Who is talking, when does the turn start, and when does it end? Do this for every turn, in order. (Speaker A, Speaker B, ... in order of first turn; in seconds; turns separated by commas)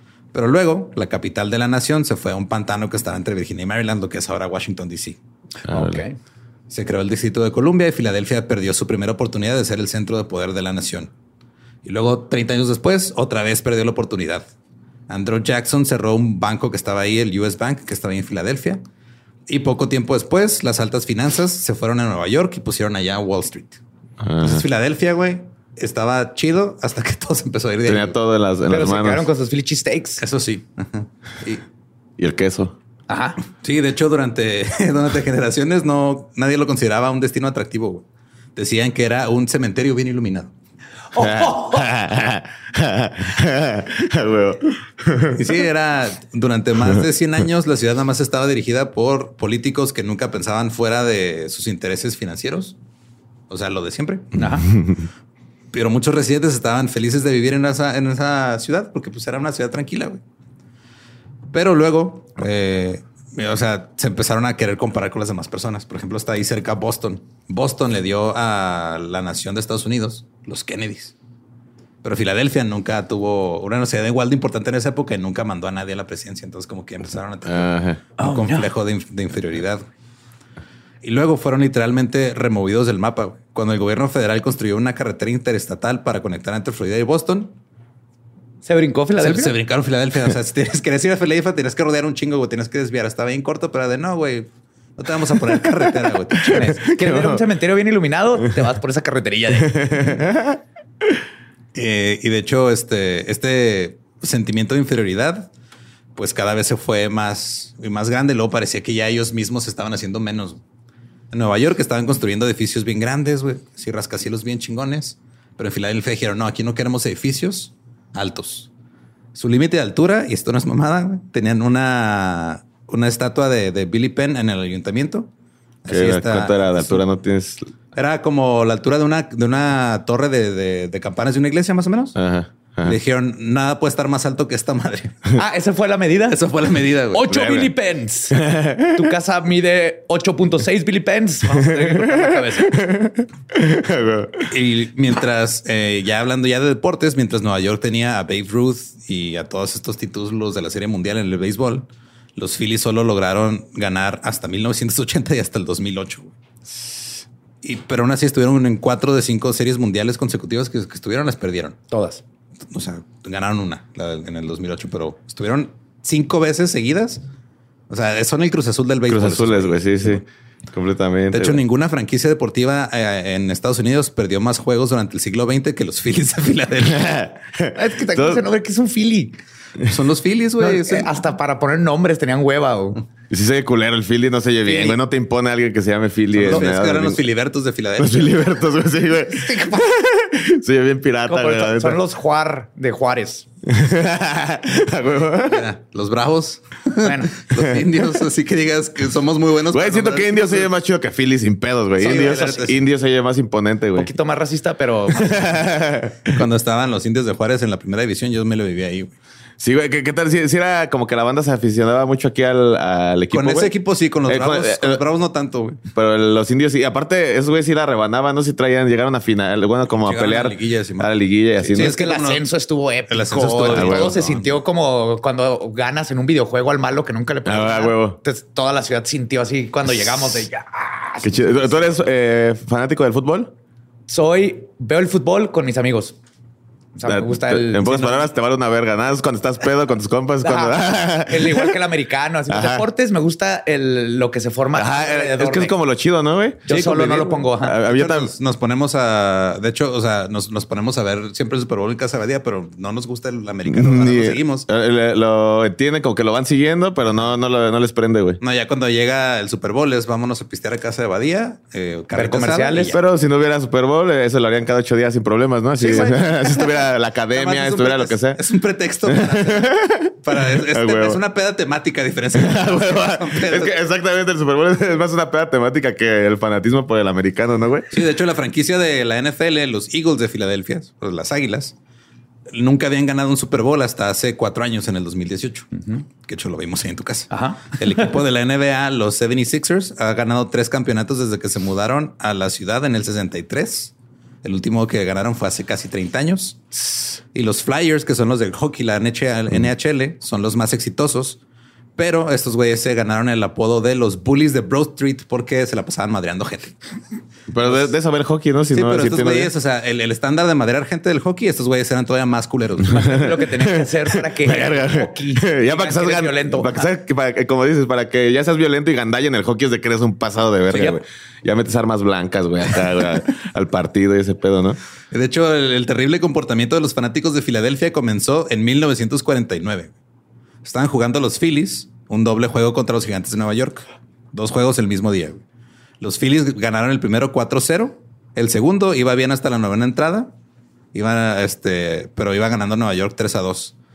Speaker A: 0.3-5.2, Speaker B: 5.7-6.0, Speaker C: 5.7-6.2, Speaker A: 6.7-11.1, Speaker A: 11.8-14.5, Speaker A: 15.1-18.8, Speaker A: 19.5-23.8, Speaker B: 24.2-24.6, Speaker A: 24.4-28.2, Speaker B: 27.8-29.2, Speaker C: 28.7-30.2, Speaker A: 30.2-31.6, Speaker B: 32.2-32.7, Speaker C: 33.1-33.4, Speaker A: 33.6-38.0, Speaker A: 38.5-40.5, Speaker C: 41.1-41.9, Speaker B: 41.2-45.4, Speaker A: 45.3-52.8, Speaker A: 53.5-54.3, Speaker C: 54.4-54.7, Speaker B: 54.7-55.0, Speaker A: 55.7-60.2, Speaker A: 61.5-71.1, Speaker A: 72.0-79.8, Speaker B: 77.4-78.0, Speaker C: 78.2-78.7, Speaker A: 81.0-87.5, Speaker C: 88.6-89.5, Speaker A: 89.2-96.8, Speaker C: 96.4-100.2, Speaker B: 96.5-97.4, Speaker B: 99.7-100.6, Speaker A: 101.7-105.5, Speaker A: 106.1-110.6, Speaker A: 111.3-118.7, Speaker A: 119.3-125.3, Speaker A: 125.8-127.0, Speaker B: 125.9-127.7, Speaker A: 127.9-132.2, Speaker B: 132.2-133.0, Speaker A: 132.8-135.3, Speaker C: 135.3-136.5, Speaker A: 136.3-137.4, Speaker C: 137.1-142.8, Speaker B: 137.3-137.7, Speaker B: 138.3-139.0, Speaker B: 141.7-144.5, Speaker A: 144.5-156.3, Speaker A: 157.6-161.8, Speaker C: 161.9-162.2, Speaker A: 162.7-167.2, Speaker A: 167.9-170.2, Speaker B: 169.1-171.6, Speaker A: 171.3-177.1, Speaker B: 176.8-178.4, Speaker C: 177.7-179.4, Speaker A: 179.8-181.1, Speaker C: 180.6-183.0, Speaker B: 183.3-187.2, Speaker C: 184.7-185.0, Speaker A: 186.3-188.6, Speaker B: 188.0-192.0, Speaker C: 189.4-189.7, Speaker C: 191.3-193.4, Speaker B: 193.7-195.6, Speaker A: 195.4-200.7, Speaker C: 197.0-197.3, Speaker B: 197.5-197.8, Speaker B: 199.7-204.1, Speaker C: 202.0-202.7, Speaker A: 202.0-202.8, Speaker C: 203.9-205.4, Speaker B: 205.1-206.4, Speaker A: 206.3-209.1, Speaker B: 209.6-213.7, Speaker A: 213.3-215.8, Speaker B: 214.3-215.0, Speaker B: 215.9-221.9, Speaker A: 219.9-222.4, Speaker C: 221.7-231.8, Speaker A: 223.1-224.6, Speaker B: 223.7-224.1, Speaker B: 227.4-228.2, Speaker B: 231.2-233.5, Speaker C: 234.1-236.2, Speaker C: 236.9-238.3, Speaker B: 237.1-241.7, Speaker C: 240.4-245.7, Speaker B: 242.5-242.8, Speaker B: 244.8-248.3, Speaker C: 246.7-247.8, Speaker A: 247.8-254.7, Speaker B: 253.7-258.4, Speaker A: 258.4-263.0, Speaker C: 262.1-263.0, Speaker B: 262.9-268.4, Speaker A: 265.8-273.8, Speaker B: 269.1-271.2, Speaker B: 272.3-278.0, Speaker A: 277.9-281.7, Speaker A: 282.5-296.7, Speaker C: 285.8-286.0, Speaker C: 287.3-287.9, Speaker A: 297.3-301.4, Speaker A: 301.9-306.8, Speaker B: 307.5-309.5, Speaker A: 307.6-307.9, Speaker A: 308.7-313.1, Speaker C: 312.9-316.9, Speaker B: 314.3-324.8, Speaker A: 320.7-321.0, Speaker A: 325.1-329.9, Speaker A: 330.6-335.4, Speaker A: 336.0-340.3, Speaker A: 340.9-343.8